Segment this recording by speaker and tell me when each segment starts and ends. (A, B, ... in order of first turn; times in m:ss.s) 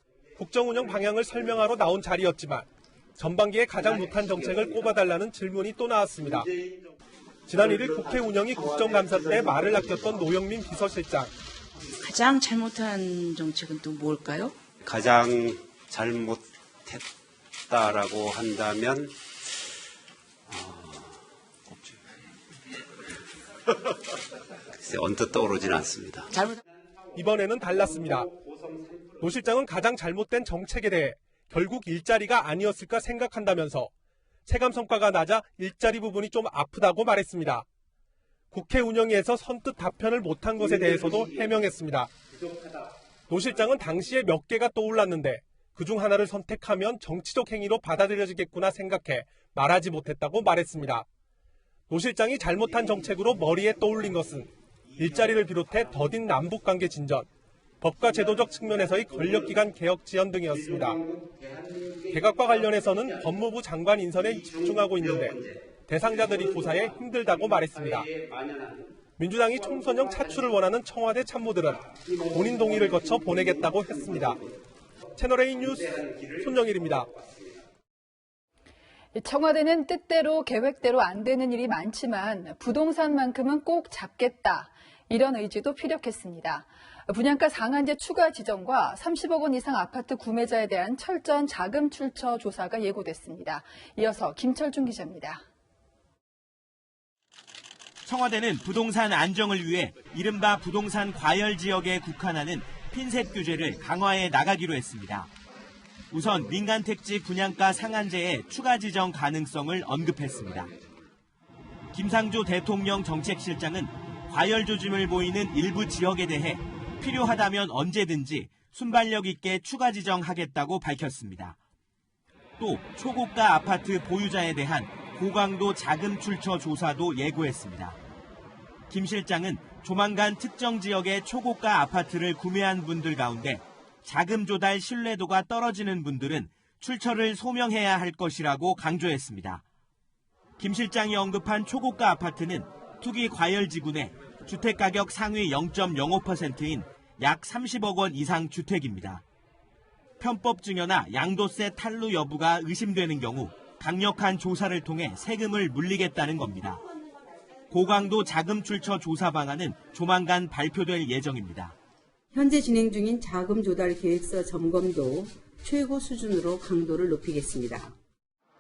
0:00.4-0:06.5 A
0:03.8-0:04.9 B
0:06.3-0:06.8 B
0:07.5-0:11.3 A
0:07.6-0:10.0 B
0:12.0-0:14.5 C
0:14.8-0:17.0 B
0:17.7-0:19.1 B
0:20.5-0:22.0 B
0:24.7-0:26.6 B
0:27.1-0:28.3 A
0:27.9-0:29.2 B
0:29.2-0:33.9 A
0:34.4-0:37.6 A
0:38.5-0:42.1 A
0:43.3-0:51.0 A
0:51.9-0:57.3 A
0:57.8-1:01.0 A
0:58.9-0:59.5 B
1:00.5-1:03.3 B
1:02.1-1:05.3 A
1:04.2-1:09.0 B
1:05.9-1:08.1 A
1:09.2-1:14.4 A
1:09.8-1:10.3 B
1:11.9-1:14.6 B
1:15.2-1:17.1 A
1:15.5-1:17.6 B
1:19.1-1:35.4 D
1:38.0-1:45.3 E
1:46.1-1:50.7 E
1:51.9-2:01.6 E
2:02.6-2:08.0 E
2:08.9-2:19.6 E
2:20.6-2:29.2 E
2:30.2-2:36.8 E
2:37.7-2:41.8 E
2:42.3-2:47.9 F